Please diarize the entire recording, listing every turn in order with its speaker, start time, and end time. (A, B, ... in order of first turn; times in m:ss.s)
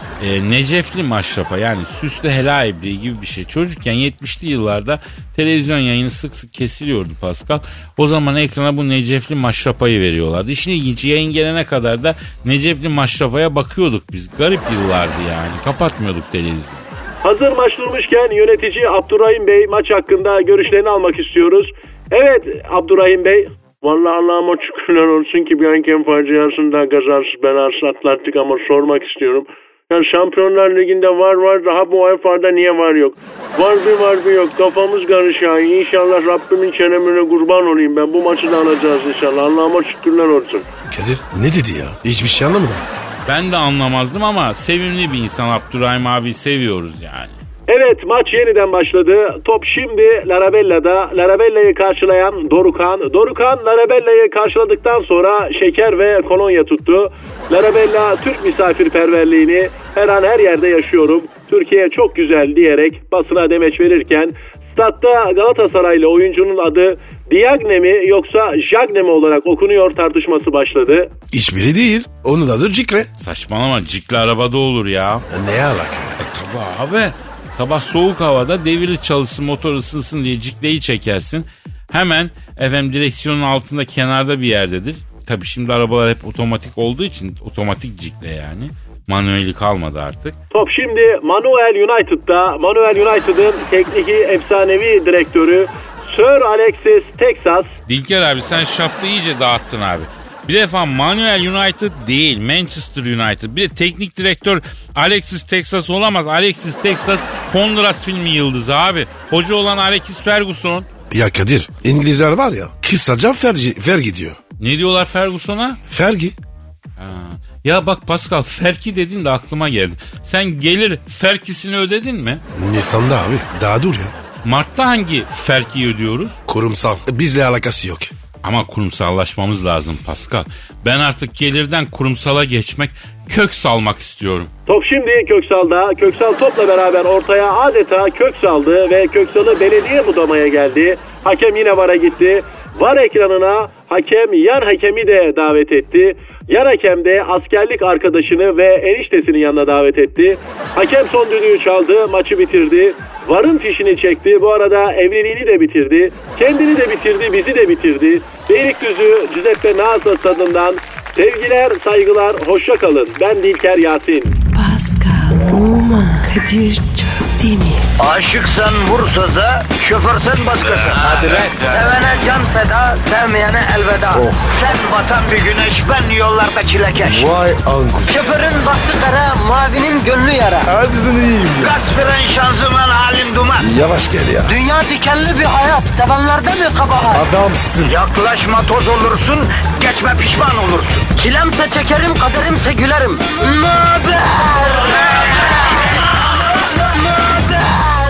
0:00.2-0:16.9 A
0:17.2-0:40.6 B
0:40.9-0:42.8 C
0:43.2-0:47.4 A
0:47.7-1:11.1 B
1:11.3-1:13.1 C
1:13.2-1:15.2 A
1:15.3-1:16.2 C
1:16.2-1:30.4 A
1:30.5-1:37.7 B
1:37.9-1:50.9 A
1:51.1-1:54.4 C
1:54.6-1:55.8 A
1:55.9-1:56.4 C
1:57.0-2:02.4 A
2:02.5-2:04.1 C
2:04.4-2:06.4 A
2:06.5-2:08.1 C
2:08.4-2:14.5 A
2:14.7-2:44.4 B
2:44.5-2:47.8 D
2:48.0-2:57.3 E
2:51.3-2:51.5 A
2:54.1-2:54.6 C
2:57.0-2:58.3 C
2:58.1-3:00.7 E
3:00.6-3:01.8 C
3:01.6-3:03.7 E
3:03.6-3:04.5 C
3:04.4-3:07.2 E
3:07.1-3:08.0 C
3:07.8-3:15.4 E
3:17.0-3:17.8 E